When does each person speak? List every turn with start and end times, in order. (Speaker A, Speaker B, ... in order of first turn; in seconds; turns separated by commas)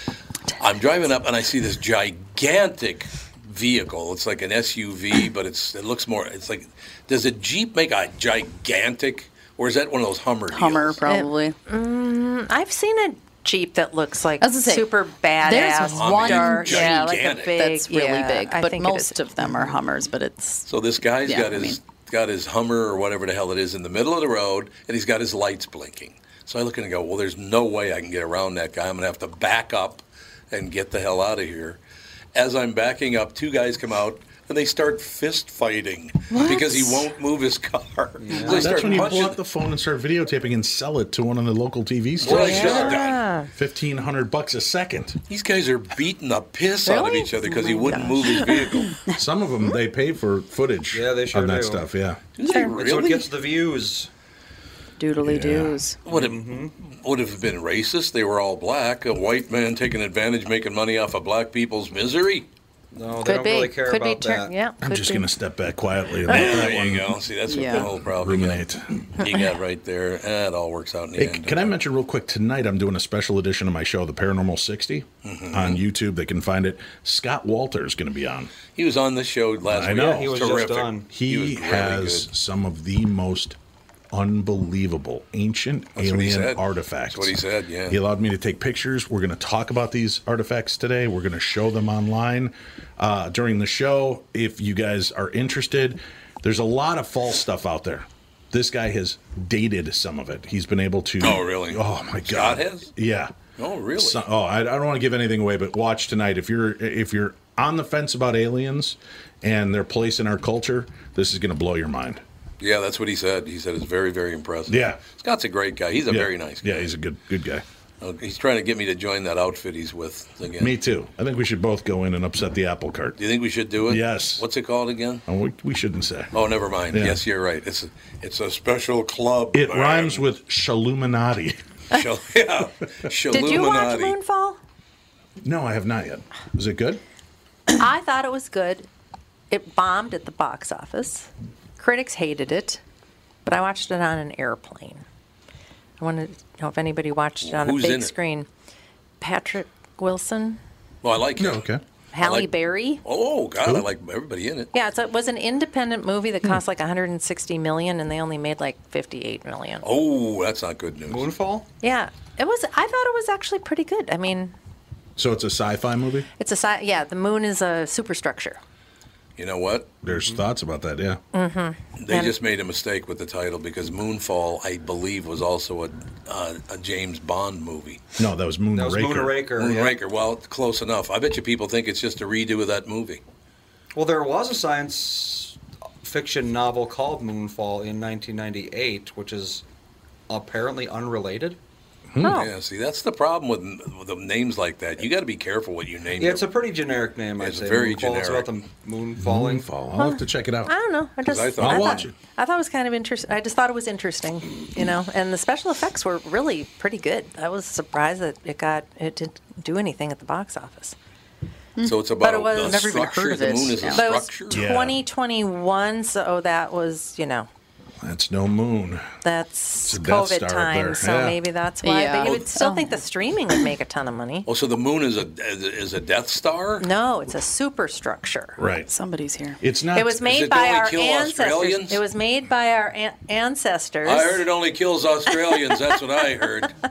Speaker A: 0.6-11.0, Speaker B: 10.5-11.6, Speaker C: 11.1-19.2, Speaker B: 14.4-20.7, Speaker A: 15.9-17.6, Speaker A: 20.7-31.8, Speaker B: 21.3-21.8, Speaker A: 32.4-39.4, Speaker C: 36.3-37.0, Speaker D: 38.2-39.0, Speaker E: 38.5-43.0, Speaker A: 42.2-43.2, Speaker D: 42.2-43.0, Speaker C: 42.3-43.5, Speaker E: 43.5-45.2, Speaker A: 45.3-48.9, Speaker C: 46.9-48.6, Speaker B: 47.6-48.0, Speaker B: 48.8-49.2, Speaker E: 49.1-52.2, Speaker D: 50.9-51.9, Speaker A: 52.4-53.3, Speaker D: 52.5-54.1, Speaker B: 55.0-56.0, Speaker E: 55.2-55.8, Speaker A: 56.0-62.5, Speaker D: 56.1-56.7, Speaker D: 62.9-64.5, Speaker C: 63.2-65.3, Speaker E: 64.8-67.2, Speaker A: 66.3-71.7, Speaker B: 67.5-67.9, Speaker E: 68.0-69.2, Speaker E: 71.2-78.5, Speaker A: 75.2-75.8, Speaker A: 78.8-82.3, Speaker E: 79.7-80.4, Speaker D: 80.0-81.1, Speaker E: 81.1-83.6, Speaker E: 84.1-103.3, Speaker A: 86.0-88.0, Speaker A: 101.2-102.9, Speaker A: 103.6-104.2, Speaker E: 104.0-112.2, Speaker A: 112.6-116.9, Speaker E: 114.7-115.0, Speaker E: 116.1-117.6, Speaker A: 118.0-120.8, Speaker E: 120.6-123.2, Speaker A: 123.2-125.2, Speaker E: 123.9-124.5, Speaker E: 125.3-126.3, Speaker A: 126.3-130.2, Speaker E: 126.9-127.2, Speaker E: 129.5-131.6, Speaker A: 131.9-134.2, Speaker C: 133.3-134.6, Speaker E: 135.4-137.0, Speaker C: 137.8-138.9, Speaker C: 139.5-142.8, Speaker C: 143.4-145.0, Speaker C: 146.0-148.5, Speaker A: 147.4-148.2, Speaker C: 149.2-150.6, Speaker A: 151.0-154.7, Speaker E: 151.4-151.8, Speaker C: 152.1-153.0, Speaker C: 154.7-159.9, Speaker A: 159.8-161.3, Speaker D: 161.1-161.7, Speaker C: 161.8-164.5, Speaker E: 165.2-166.3, Speaker C: 166.4-168.6, Speaker A: 169.4-169.9, Speaker E: 170.0-171.2, Speaker D: 170.1-170.4, Speaker C: 171.3-172.3, Speaker A: 172.0-178.0, Speaker E: 178.2-179.5, Speaker D: 178.8-180.0, Speaker A: 179.6-183.2, Speaker D: 183.9-189.6, Speaker D: 190.3-191.6, Speaker E: 192.1-192.4, Speaker C: 192.2-192.5, Speaker A: 192.2-196.5, Speaker D: 196.2-199.7, Speaker A: 197.4-198.5, Speaker E: 199.2-200.7, Speaker C: 200.0-211.0, Speaker A: 201.2-202.1, Speaker E: 201.6-202.1, Speaker B: 211.8-214.2, Speaker A: 211.8-214.6, Speaker C: 212.2-213.1, Speaker C: 213.9-217.5, Speaker E: 214.5-215.0, Speaker E: 218.0-219.1, Speaker C: 219.2-224.5, Speaker E: 219.8-221.4, Speaker B: 221.8-223.0, Speaker A: 224.5-226.9, Speaker C: 226.8-228.6, Speaker E: 228.6-228.9, Speaker B: 228.9-229.6, Speaker E: 229.6-230.2, Speaker C: 229.9-234.5, Speaker A: 230.2-232.0, Speaker A: 234.1-236.8